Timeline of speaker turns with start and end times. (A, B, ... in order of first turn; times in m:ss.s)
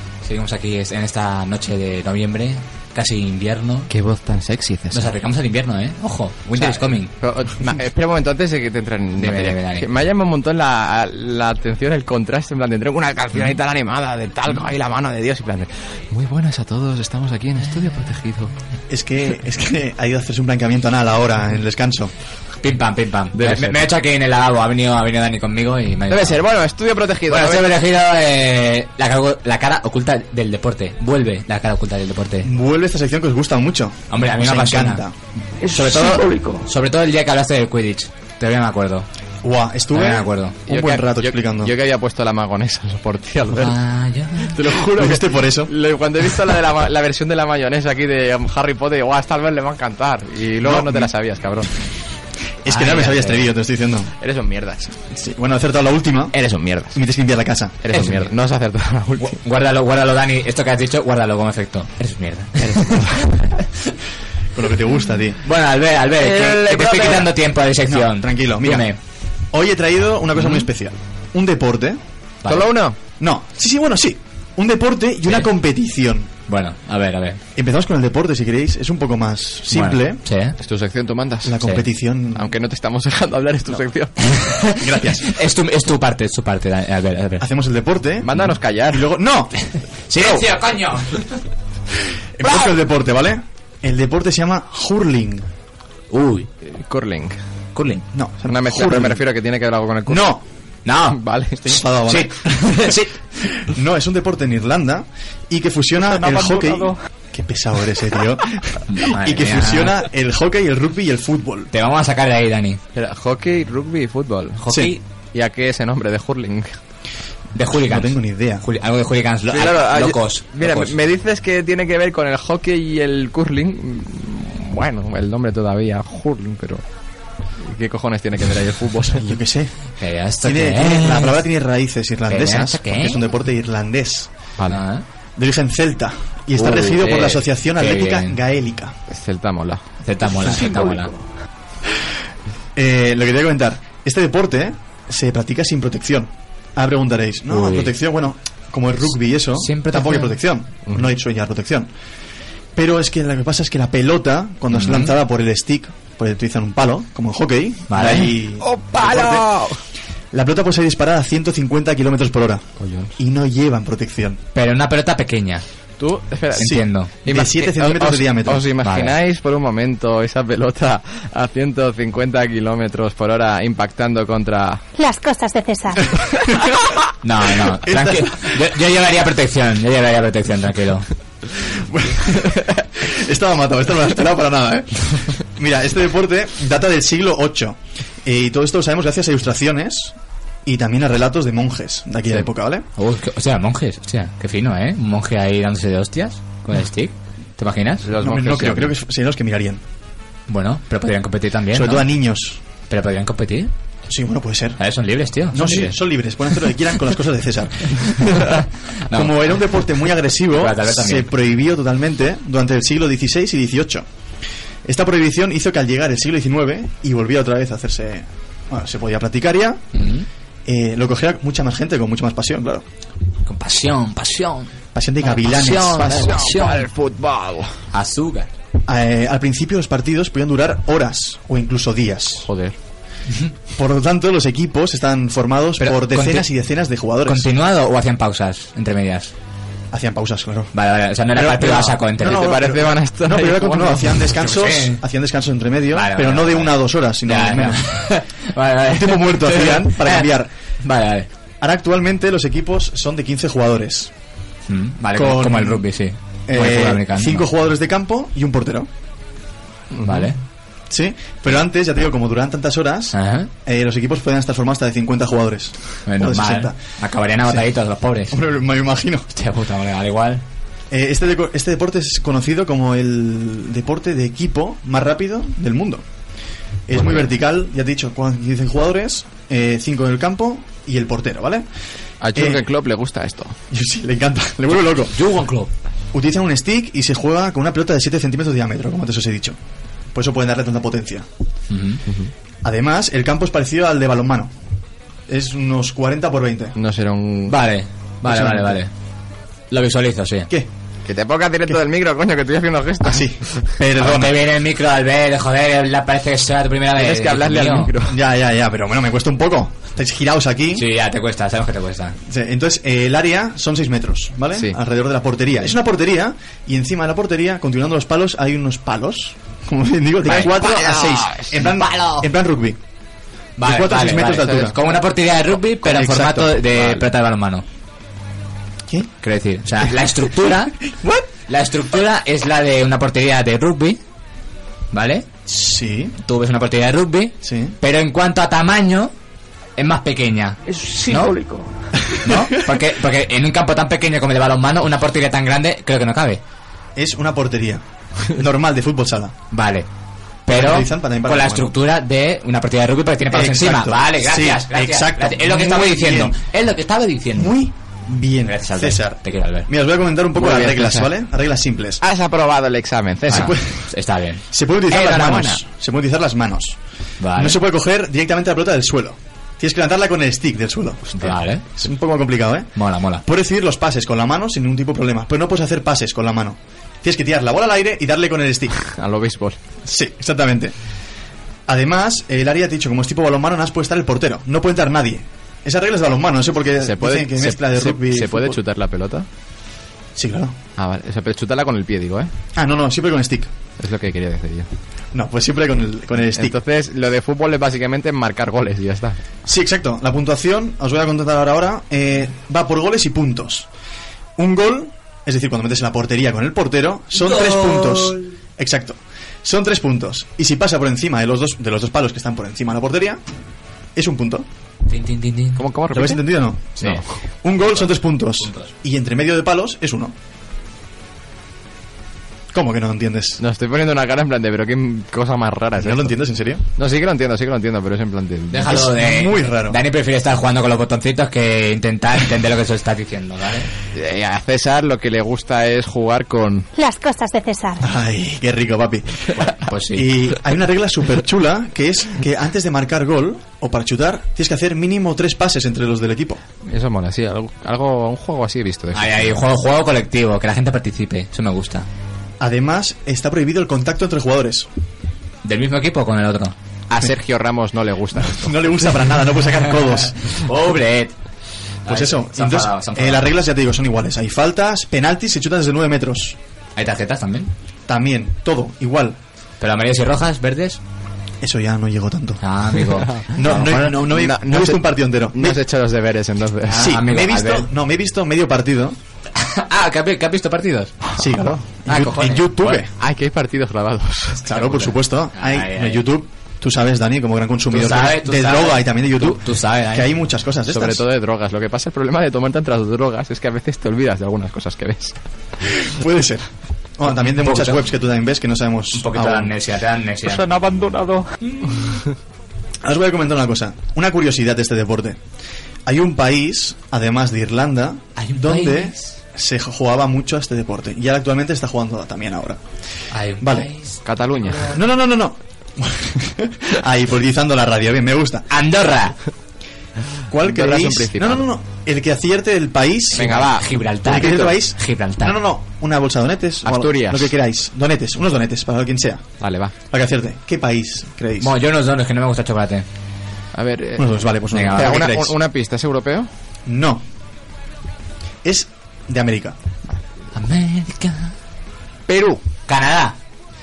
0:00.2-0:03.9 A
0:03.9-0:05.1 B
0:04.9-0:07.1 A
0:06.5-0:18.5 B
0:09.2-0:09.8 A
0:18.9-0:22.1 C
0:22.6-0:26.4 A
0:23.3-0:23.9 B
0:26.1-0:27.8 B
0:27.3-0:32.5 A
0:32.4-0:35.1 C
0:34.1-0:35.0 A
0:35.6-0:36.7 D
0:35.8-0:39.1 A
0:39.4-0:41.7 C
0:39.9-0:40.6 A
0:40.7-0:43.8 B
0:43.6-0:44.6 A
0:44.4-0:51.7 B
0:44.9-0:45.7 C
0:50.6-0:51.1 C
0:52.6-0:54.1 C
0:52.7-0:53.5 A
0:54.2-0:55.0 B
0:55.1-0:56.4 C
0:56.3-0:57.0 B
0:56.9-0:57.8 C
0:57.8-0:59.4 B
0:57.9-0:58.3 A
0:59.2-1:03.7 A
1:02.6-1:03.2 B
1:04.6-1:05.4 C
1:05.4-1:09.0 A
1:06.2-1:07.3 B
1:07.9-1:08.9 C
1:09.5-1:12.0 C
1:10.4-1:10.7 A
1:12.4-1:12.7 A
1:12.5-1:13.0 B
1:13.2-1:16.3 C
1:16.5-1:17.4 A
1:17.6-1:20.2 C
1:19.7-1:20.6 A
1:20.6-1:21.6 B
1:21.4-1:22.5 C
1:22.3-1:24.3 B
1:24.3-1:27.5 A
1:24.8-1:25.3 C
1:27.4-1:29.7 C
1:28.2-1:29.1 B
1:30.1-1:31.4 A
1:32.4-1:35.5 C
1:36.1-1:36.5 A
1:36.6-1:37.4 B
1:37.8-1:38.0 A
1:38.1-1:39.2 C
1:38.5-1:40.4 B
1:40.1-1:40.4 C
1:40.8-1:41.2 A
1:41.1-1:41.8 B
1:41.6-1:42.9 C
1:42.1-1:43.2 A
1:43.6-1:51.7 C
1:46.0-1:47.0 D
1:48.9-1:50.0 A
1:51.7-1:52.8 A
1:52.9-1:54.7 B
1:54.6-1:55.0 A
1:54.7-1:55.0 C
1:55.3-1:56.8 B
1:57.6-2:00.9 A
1:57.8-1:58.6 C
1:59.5-2:06.8 B
2:07.6-2:09.4 B
2:09.2-2:09.9 C
2:10.0-2:11.4 A
2:10.4-2:14.3 C
2:12.3-2:13.2 A
2:14.7-2:15.0 A
2:15.4-2:19.0 C
2:16.6-2:17.4 B
2:17.8-2:18.4 A
2:19.1-2:19.8 B
2:20.0-2:21.1 A
2:20.4-2:21.2 D
2:22.8-2:31.9 C
2:27.5-2:27.9 A
2:29.6-2:30.4 A
2:32.8-2:39.5 C
2:34.7-2:35.1 A
2:37.9-2:38.3 A
2:38.6-2:39.8 B
2:40.3-2:44.4 C
2:42.8-2:43.2 B
2:44.5-2:45.6 A
2:46.0-2:54.8 B
2:46.6-2:47.1 A
2:46.6-2:48.7 C
2:48.8-2:49.2 A
2:55.0-2:56.1 E
2:57.2-3:01.1 A
2:57.7-2:58.5 C
3:01.6-3:12.9 C
3:13.0-3:18.1 A
3:18.0-3:19.0 B
3:18.2-3:19.8 C
3:20.5-3:22.1 A
3:21.7-3:22.6 C
3:22.9-3:23.7 A
3:24.1-3:24.8 C
3:24.8-3:26.0 A
3:25.5-3:28.6 C
3:29.1-3:34.1 C
3:30.5-3:31.3 A
3:34.8-3:39.8 C
3:39.9-3:40.3 A
3:40.7-3:42.8 C
3:43.5-3:46.9 A
3:44.9-3:46.4 C
3:46.0-3:47.8 B
3:47.9-3:48.5 A
3:48.9-3:52.5 C
3:52.4-3:52.8 B
3:53.7-3:57.5 C
3:55.8-3:56.5 A
3:57.2-3:59.3 A
3:59.9-4:00.7 C
4:00.7-4:02.5 A
4:01.3-4:08.0 C
4:02.2-4:04.3 B
4:04.3-4:05.0 A
4:05.9-4:10.3 A
4:08.9-4:10.5 C
4:10.8-4:11.3 A
4:11.6-4:14.1 C
4:14.7-4:17.5 A
4:15.1-4:15.8 C
4:16.5-4:18.9 C
4:19.9-4:20.3 B
4:20.0-4:20.4 A
4:20.9-4:26.8 C
4:23.1-4:23.5 A
4:26.0-4:28.4 A
4:28.3-4:29.3 C
4:29.3-4:30.4 A
4:30.9-4:36.0 C
4:36.9-4:41.7 C
4:36.9-4:37.3 A
4:42.2-4:43.6 B
4:42.4-4:42.6 C
4:43.7-4:45.2 C
4:45.1-4:45.7 A
4:46.1-4:49.6 C
4:50.1-4:51.3 C
4:51.7-4:52.0 A
4:52.6-4:54.5 C
4:55.3-4:56.8 C
4:56.8-4:57.6 B
4:57.5-4:58.9 A
4:58.2-4:58.8 C
4:59.7-5:00.5 A
5:01.0-5:03.6 B
5:03.0-5:04.4 C
5:04.0-5:07.9 A
5:06.9-5:08.2 B
5:08.1-5:10.9 C
5:10.7-5:12.2 A
5:12.3-5:22.8 C
5:14.5-5:14.8 B
5:20.3-5:21.7 B
5:20.3-5:20.5 A
5:21.6-5:22.2 A
5:23.6-5:27.6 A
5:23.6-5:24.8 C
5:24.4-5:24.7 B
5:25.8-5:27.0 C
5:29.2-5:30.8 A
5:30.9-5:31.3 C
5:31.5-5:34.0 A
5:34.9-5:35.3 A
5:35.5-5:36.2 C
5:36.2-5:39.1 A
5:37.4-5:37.8 C
5:39.8-5:41.3 A
5:40.7-5:41.7 D
5:42.2-5:46.4 A
5:47.0-5:49.4 C
5:49.5-5:49.9 A
5:50.5-5:57.6 A
5:50.5-5:51.7 C
5:53.3-5:56.4 C
5:57.4-6:02.0 C
5:58.4-5:59.7 A
6:00.4-6:01.1 B
6:02.0-6:03.6 B
6:03.3-6:03.9 C
6:03.3-6:04.4 A
6:04.5-6:06.8 C
6:04.9-6:05.6 B
6:07.2-6:07.6 A
6:07.4-6:18.9 C
6:11.2-6:11.7 A
6:12.8-6:13.2 A
6:18.9-6:19.6 B
6:19.8-6:20.7 C
6:21.7-6:28.6 C
6:26.8-6:29.3 B
6:30.2-6:30.6 C
6:30.8-6:32.3 B
6:32.6-6:33.5 C
6:33.8-6:34.7 B
6:35.1-6:36.6 C
6:36.3-6:39.2 B
6:39.5-6:43.7 C
6:44.4-6:53.2 C
6:47.2-6:48.2 A
6:54.0-6:54.5 C
6:54.9-6:55.6 A
6:55.6-6:56.9 B
6:55.9-7:00.1 C
6:57.6-6:58.7 A
7:02.5-7:03.4 C
7:03.4-7:06.2 B
7:05.8-7:06.6 C
7:06.8-7:08.9 B
7:08.5-7:13.7 A
7:08.6-7:09.8 C
7:13.9-7:16.7 B
7:16.8-7:17.8 E
7:17.8-7:26.4 C
7:19.6-7:20.1 A
7:26.6-7:29.4 B
7:28.9-7:31.9 A
7:32.4-7:34.7 C
7:35.4-7:36.6 A
7:36.9-7:38.9 B
7:38.3-7:40.4 C
7:40.3-7:41.1 A
7:41.8-7:43.3 A
7:41.9-7:46.4 C
7:46.8-7:47.5 A
7:47.9-7:49.2 C
7:49.6-7:50.8 A
7:51.4-7:52.4 C
7:52.4-7:54.0 A
7:53.0-7:57.0 B
7:53.3-7:55.6 C
7:56.7-7:57.7 A
7:56.7-7:59.0 C
7:59.4-8:01.1 A
8:01.2-8:02.9 C
8:01.9-8:02.8 A
8:02.6-8:04.5 B
8:04.5-8:11.0 C
8:04.5-8:06.0 A
8:07.7-8:10.1 A
8:10.7-8:15.2 B
8:15.8-8:19.5 C
8:17.4-8:17.8 A
8:18.9-8:20.5 A
8:20.2-8:21.3 D
8:22.8-8:25.2 C
8:25.9-8:32.6 C
8:28.2-8:29.2 A
8:33.1-8:34.8 A
8:33.4-8:33.7 C
8:34.0-8:34.7 B
8:34.7-8:38.5 C
8:38.5-8:39.2 A
8:40.3-8:43.4 C
8:40.4-8:41.5 B
8:43.1-8:44.6 B
8:43.2-8:45.4 A
8:44.0-8:49.3 C
8:46.6-8:47.4 B
8:49.4-8:49.7 B
8:49.9-8:51.5 C
8:51.4-8:52.8 A
8:53.5-8:56.3 B
8:54.0-8:55.4 C
8:54.5-8:55.0 A
8:56.7-8:57.0 C
8:58.4-8:59.6 C
9:00.4-9:01.3 A
9:02.1-9:02.4 B
9:02.7-9:03.2 A